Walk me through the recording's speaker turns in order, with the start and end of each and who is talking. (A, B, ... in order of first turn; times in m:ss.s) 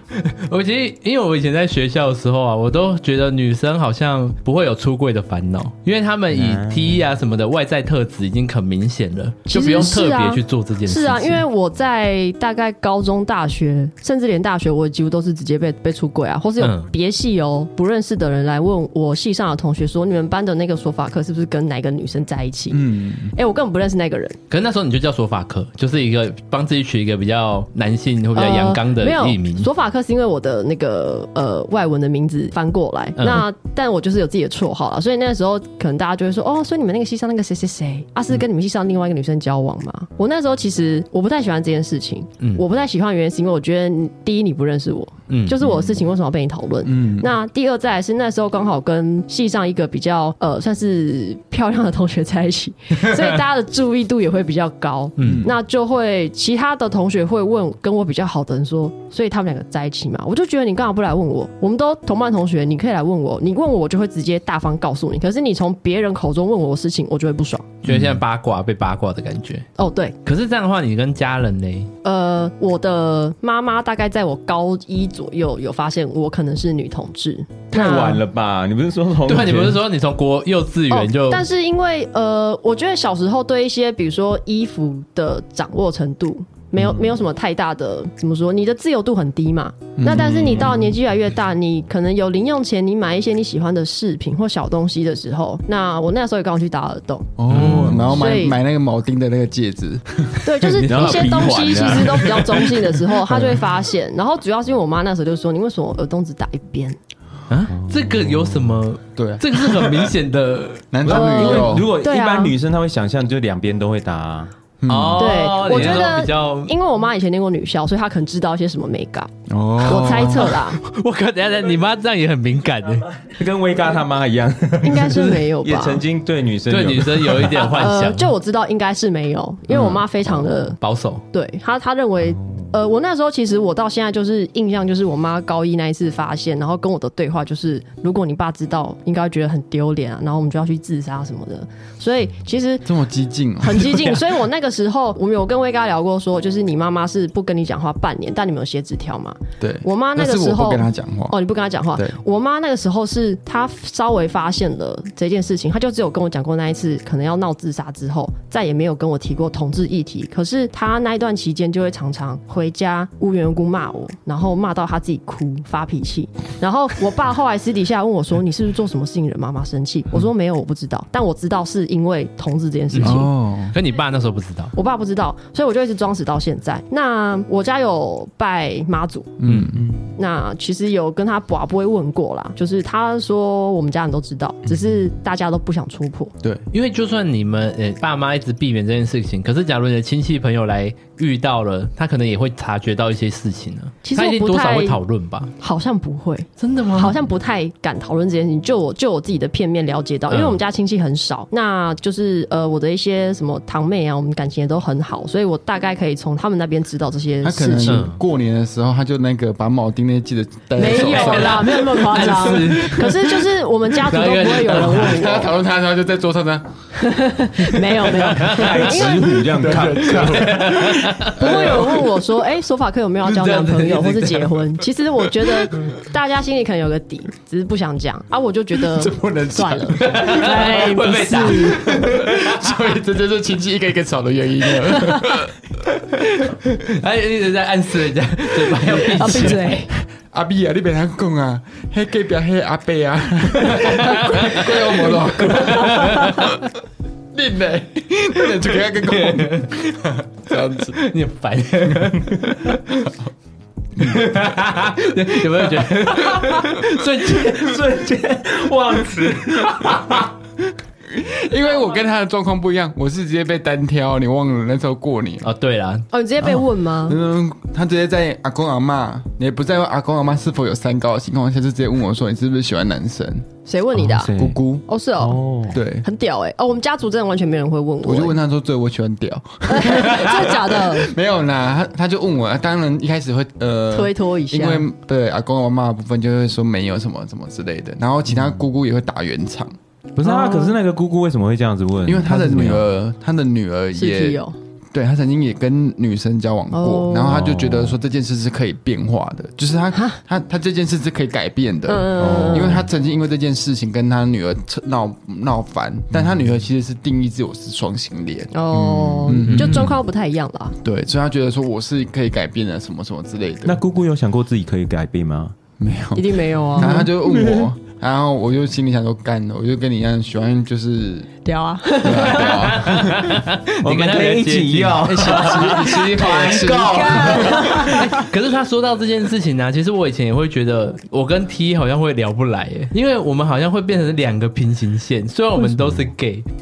0:00.1-0:11.4 A
0:06.3-0:07.0 B
0:09.5-0:24.4 C
0:16.6-0:16.9 A
0:22.7-0:23.3 D
0:24.5-0:29.7 A
0:28.4-1:07.8 C
0:33.2-0:33.4 A
0:45.3-0:45.6 A
0:46.9-0:47.3 D
0:55.2-0:55.5 A
0:55.2-0:55.5 D
1:07.8-1:09.7 A
1:07.9-1:08.1 B
1:09.8-1:10.2 C
1:10.2-1:11.9 A
1:12.0-1:18.2 C
1:17.7-1:19.8 B
1:19.3-1:21.5 A
1:20.9-1:37.3 C
1:30.0-1:30.8 D
1:37.4-1:40.5 D
1:37.5-1:38.1 A
1:37.5-1:38.1 B
1:38.0-1:38.6 C
1:40.4-1:47.0 C
1:40.7-1:42.3 A
1:40.8-1:42.8 B
1:47.5-1:50.9 A
1:47.8-1:48.6 B
1:49.2-1:50.1 D
1:50.9-1:51.9 D
1:51.0-1:54.5 B
1:51.1-1:52.5 C
1:54.8-1:55.3 D
1:54.9-1:56.7 A
1:55.2-2:00.8 C
1:55.7-1:56.0 B
1:59.5-2:00.6 D
2:00.0-2:03.2 A
2:03.2-2:07.6 B
2:04.8-2:06.0 C
2:06.7-2:08.3 A
2:07.5-2:10.8 C
2:09.7-2:10.0 B
2:10.8-2:11.2 A
2:11.3-2:22.9 C
2:12.3-2:12.7 B
2:22.8-2:24.2 D
2:23.6-2:53.3 C
2:29.6-2:31.4 D
2:52.9-2:54.7 A
2:53.0-2:53.8 D
2:54.7-2:59.4 C
2:59.4-2:59.9 D
2:59.4-2:59.8 A
2:59.8-3:00.1 B
3:00.2-3:06.3 C
3:06.7-3:15.5 A
3:14.0-3:15.0 C
3:15.6-3:28.0 C
3:16.6-3:17.2 A
3:20.3-3:20.6 A
3:27.4-3:32.4 D
3:27.9-3:28.2 A
3:30.8-3:35.5 C
3:30.8-3:35.3 A
3:34.7-3:36.7 D
3:37.0-3:39.5 C
3:38.1-3:39.1 A
3:38.4-3:40.8 B
3:39.5-3:41.8 D
3:40.1-3:41.9 A
3:41.3-3:51.9 C
3:43.2-3:44.9 A
3:48.8-3:55.6 D
3:50.0-3:52.8 A
3:56.1-3:59.7 A
3:59.2-3:59.9 C
4:00.1-4:06.6 D
4:03.7-4:06.6 A
4:07.3-4:11.0 D
4:09.1-4:10.1 A
4:10.9-4:13.1 A
4:14.0-4:14.2 D
4:14.0-4:17.8 A
4:17.4-4:20.3 B
4:21.1-4:25.5 D
4:25.4-4:26.1 A
4:26.1-4:27.2 C
4:26.4-4:26.7 B
4:27.1-4:33.5 D
4:33.7-4:34.3 C
4:33.9-4:34.6 B
4:34.4-4:34.8 D
4:34.9-4:38.4 C
4:35.2-4:35.8 B
4:35.7-4:36.1 D
4:38.0-4:49.7 D
4:39.7-4:41.1 C
4:43.9-4:44.9 C
4:50.2-4:52.8 B
4:50.2-4:50.8 C
4:52.0-4:54.4 D
4:54.0-4:54.6 C
4:54.9-5:10.0 D
4:56.7-4:57.4 C
4:57.3-4:58.0 B
5:01.9-5:02.8 C
5:02.2-5:02.9 B
5:08.5-5:10.8 C
5:08.8-5:09.8 B
5:09.5-5:09.9 A
5:10.8-5:13.8 D
5:13.6-5:15.6 B
5:15.8-5:21.3 D
5:16.2-5:17.1 C
5:16.8-5:17.7 B
5:21.4-5:22.9 C
5:22.0-5:23.3 D
5:22.2-5:25.5 A
5:23.8-5:28.2 B
5:25.0-5:27.6 D
5:25.7-5:26.0 C
5:26.7-5:28.3 C
5:27.9-5:36.5 A